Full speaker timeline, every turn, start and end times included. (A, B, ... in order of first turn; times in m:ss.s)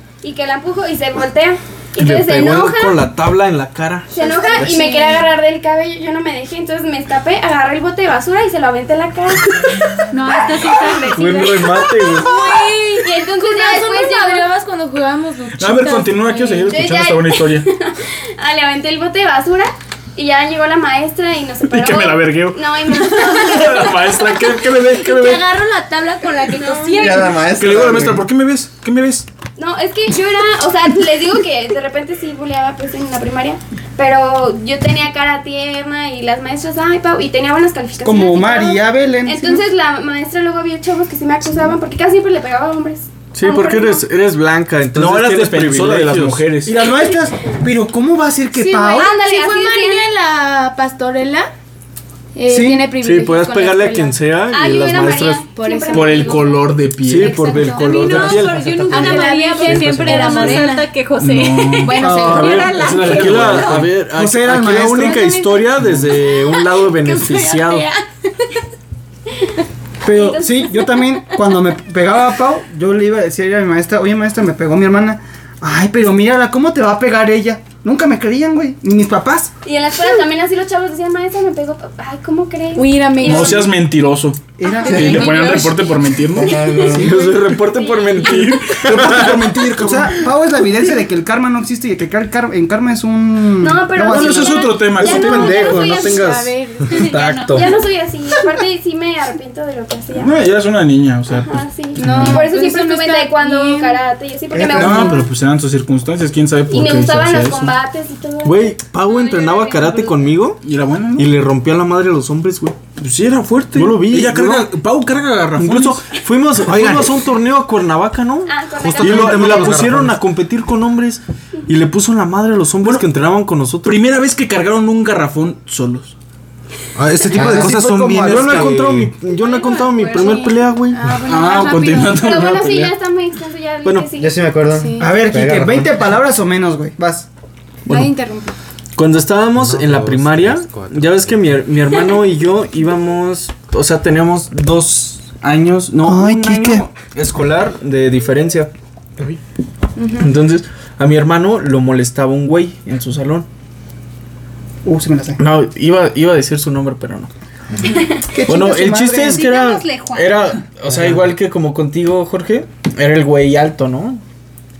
0:00.2-0:03.0 A
0:02.0-0:05.0 B
0:04.1-0:10.0 A
0:04.5-0:05.2 C
0:10.1-0:12.4 D
0:10.6-0:11.0 A
0:11.1-0:12.3 B
0:12.0-0:16.8 C
0:12.1-0:14.5 A
0:15.6-0:17.7 E
0:16.7-0:24.3 A
0:21.7-0:25.4 E
0:25.0-0:27.4 C
0:26.6-0:27.3 A
0:27.0-0:28.2 F
0:27.5-0:29.3 E
0:29.6-0:44.0 A
0:38.0-0:39.6 G
0:43.3-0:46.5 B
0:44.9-0:46.7 E
0:46.6-0:49.1 G
0:48.6-0:50.1 A
0:48.6-0:51.5 C
0:52.3-0:54.2 C
0:52.5-0:52.9 G
0:53.0-0:55.5 B
0:54.4-0:56.7 A
0:55.5-0:56.4 C
0:55.9-0:57.4 E
0:57.0-1:00.6 B
0:57.2-0:58.4 C
0:57.6-1:03.9 D
0:58.9-1:00.9 C
1:01.2-1:02.2 E
1:01.8-1:02.7 C
1:02.0-1:07.9 B
1:02.3-1:02.7 G
1:02.8-1:03.9 E
1:04.0-1:05.3 G
1:05.0-1:06.1 A
1:05.8-1:06.0 E
1:06.6-1:07.3 A
1:10.0-1:19.5 G
1:10.0-1:11.2 A
1:19.6-1:23.6 A
1:22.7-1:23.7 C
1:23.2-1:26.6 E
1:24.6-1:25.7 G
1:24.6-1:25.8 C
1:24.7-1:25.6 A
1:26.3-1:27.1 F
1:26.4-1:28.8 A
1:26.8-1:29.6 B
1:28.2-1:30.2 E
1:28.8-1:34.8 G
1:33.6-1:36.2 A
1:34.0-1:35.7 E
1:35.0-1:37.8 B
1:35.0-1:37.1 C
1:35.8-1:36.2 F
1:36.9-1:37.6 D
1:37.4-1:40.3 A
1:40.1-1:42.4 E
1:41.4-1:45.3 A
1:42.0-1:44.0 C
1:42.0-1:42.4 B
1:44.5-1:44.9 G
1:44.7-1:47.8 E
1:46.7-1:50.1 A
1:48.4-1:50.6 B
1:50.6-1:51.3 E
1:51.2-1:52.8 B
1:53.0-1:56.1 E
1:53.7-1:54.7 B
1:55.6-2:04.0 B
1:56.6-1:57.1 H
1:58.4-1:59.9 A
1:58.8-2:00.2 H
2:03.8-2:06.1 E
2:07.0-2:09.2 H
2:07.3-2:08.8 G
2:07.3-2:07.7 F
2:08.2-2:11.2 B
2:09.2-2:10.6 A
2:10.1-2:12.2 C
2:11.2-2:12.9 E
2:11.5-2:14.4 A
2:13.8-2:14.1 B
2:14.1-2:16.1 F
2:14.6-2:15.2 C
2:15.0-2:17.3 G
2:17.8-2:18.6 C
2:17.9-2:18.1 B
2:19.0-2:28.7 B
2:19.5-2:21.4 H
2:26.0-2:26.8 G
2:30.0-2:30.3 C
2:30.2-2:33.5 B
2:34.8-2:35.4 G
2:35.4-2:37.3 B
2:38.2-2:39.4 G
2:38.4-2:44.2 B
2:39.3-2:40.5 D
2:40.9-2:41.2 F